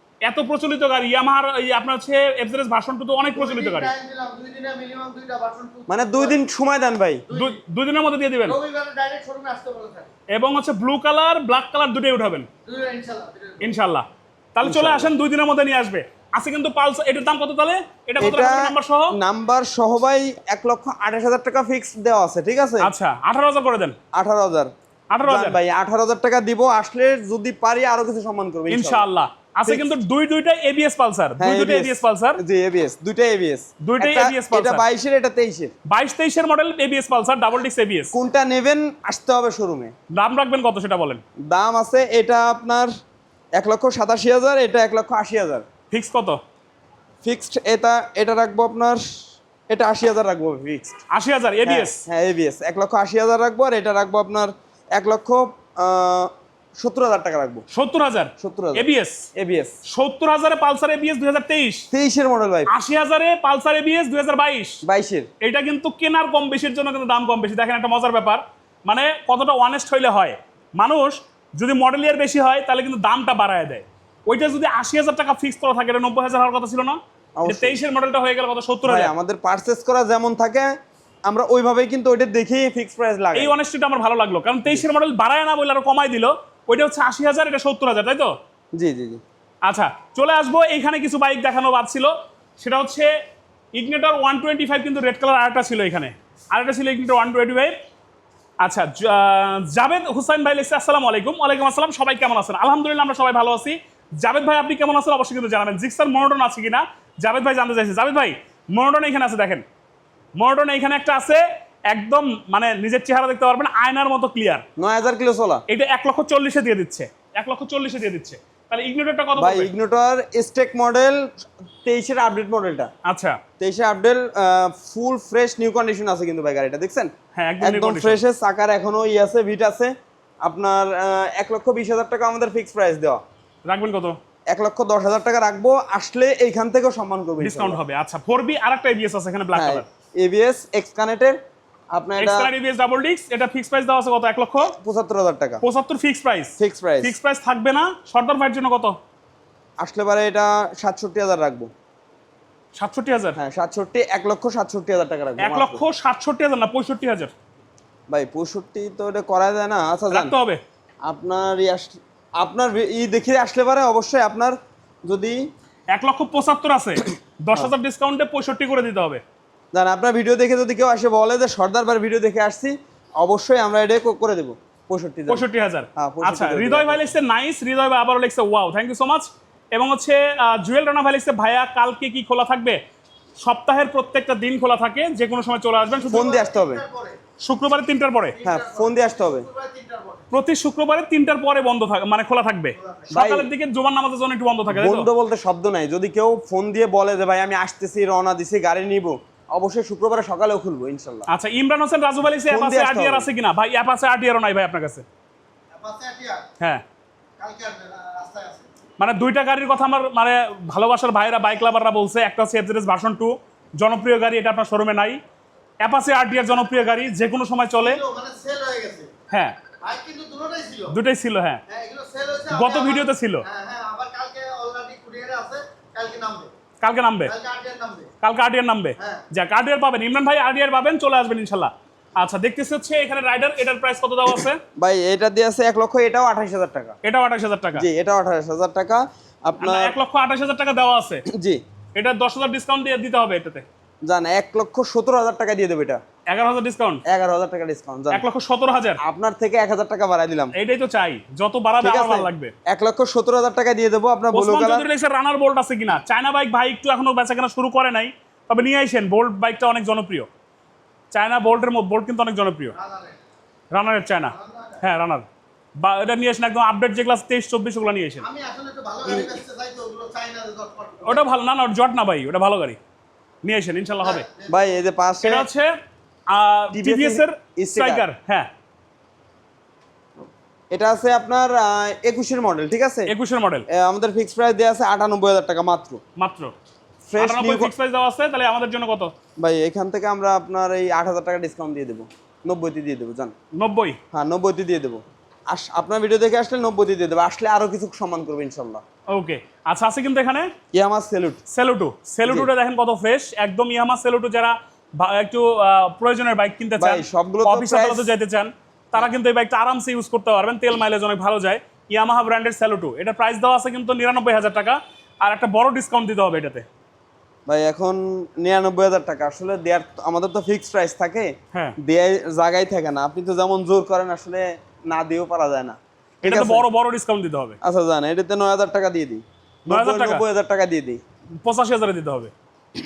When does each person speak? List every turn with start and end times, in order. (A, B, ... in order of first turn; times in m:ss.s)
0:00.2-0:03.9 A
0:03.4-0:06.4 B
0:05.9-0:07.3 C
0:07.3-0:07.6 B
0:07.3-0:08.6 A
0:08.5-0:10.1 B
0:10.3-0:12.5 A
0:12.7-0:13.8 B
0:13.6-0:19.2 A
0:14.6-0:15.1 C
0:18.2-0:22.9 C
0:22.8-0:24.0 A
0:24.1-0:24.7 C
0:25.1-0:25.6 A
0:25.2-0:29.1 C
0:28.7-0:32.4 A
0:29.7-0:30.0 C
0:31.4-0:35.7 C
0:33.8-0:34.8 A
0:35.9-0:38.1 A
0:38.1-0:39.9 C
0:40.1-0:41.2 A
0:41.4-0:42.9 C
0:43.6-0:45.6 C
0:45.9-0:46.4 A
0:47.2-0:51.0 C
0:51.1-0:52.1 A
0:51.7-0:57.6 C
0:57.7-0:59.3 A
0:58.4-0:59.8 C
0:59.9-1:01.9 A
1:01.9-1:02.7 C
1:02.7-1:04.8 A
1:04.8-1:05.3 C
1:05.4-1:19.1 A
1:17.4-1:17.8 C
1:18.8-1:20.7 C
1:21.3-1:23.6 C
1:23.3-1:28.3 A
1:28.8-1:29.2 C
1:29.7-1:33.1 A
1:33.8-1:37.8 A
1:38.6-1:49.6 A
1:50.4-1:54.6 A
1:54.8-1:55.6 C
1:55.7-1:59.7 A
1:59.4-2:02.9 C
2:03.0-2:03.4 A
2:03.6-2:09.9 C
2:07.4-2:08.2 A
2:10.4-2:13.2 C
2:13.7-2:14.2 A
2:14.5-2:17.8 C
2:17.4-2:19.9 A
2:19.5-2:21.4 C
2:21.9-2:22.5 C
2:22.2-2:24.7 A
2:24.6-2:25.6 C
2:25.6-2:29.0 A
2:26.6-2:27.2 C
2:29.8-2:31.7 C
2:32.8-2:33.4 A
2:33.4-2:35.8 C
2:35.4-2:37.3 A
2:38.1-2:40.3 C
2:40.1-2:40.6 A
2:41.1-2:45.4 C
2:45.9-2:49.2 A
2:49.7-2:55.4 C
2:55.3-3:02.8 A
2:56.0-2:57.1 C
3:03.4-3:06.4 A
3:06.1-3:07.2 B
3:06.1-3:06.8 C
3:07.4-3:08.4 A
3:08.3-3:10.2 B
3:08.4-3:09.5 C
3:10.3-3:15.1 A
3:12.8-3:13.1 B
3:13.1-3:13.5 C
3:14.7-3:21.3 C
3:21.3-3:25.0 A
3:22.5-3:23.3 C
3:25.8-3:26.4 B
3:27.4-3:28.7 B
3:29.0-3:35.2 A
3:35.8-3:38.0 A
3:37.8-3:39.1 B
3:39.3-3:39.6 A
3:39.8-3:41.0 B
3:40.9-3:41.6 A
3:41.7-3:46.5 B
3:42.5-3:43.5 A
3:46.8-3:47.4 A
3:47.3-3:48.1 B
3:48.2-3:54.6 A
3:49.0-3:49.2 B
3:54.8-3:57.0 C
3:57.0-3:57.9 A
3:57.8-4:00.0 C
3:59.6-4:01.2 A
4:01.3-4:01.6 C
4:02.0-4:03.6 A
4:04.1-4:06.0 C
4:06.3-4:07.0 A
4:07.1-4:08.2 C
4:08.1-4:09.0 A
4:09.0-4:10.5 C
4:10.6-4:12.5 A
4:11.8-4:14.9 C
4:14.3-4:20.3 A
4:21.1-4:22.8 A
4:22.8-4:23.2 B
4:23.7-4:25.3 A
4:24.3-4:24.8 B
4:25.8-4:28.3 A
4:28.2-4:31.2 B
4:29.0-4:29.4 C
4:31.0-4:32.8 A
4:33.4-4:34.3 A
4:34.1-4:34.5 B
4:34.5-4:35.5 C
4:35.2-4:35.7 A
4:36.3-4:38.5 A
4:36.7-4:38.1 C
4:40.7-4:43.1 C
4:43.1-4:43.7 A
4:43.7-4:46.0 C
4:46.2-4:46.6 A
4:47.1-4:47.7 C
4:47.2-4:49.1 A
4:49.4-4:53.3 C
4:53.6-4:54.0 A
4:54.1-4:58.8 C
4:59.1-5:00.5 A
5:00.7-5:01.4 C
5:01.5-5:16.7 A
5:02.2-5:02.5 C
5:06.8-5:08.1 C
5:17.5-5:26.7 C
5:26.2-5:27.6 A
5:27.6-5:31.0 C
5:29.7-5:30.2 A
5:31.4-5:32.3 A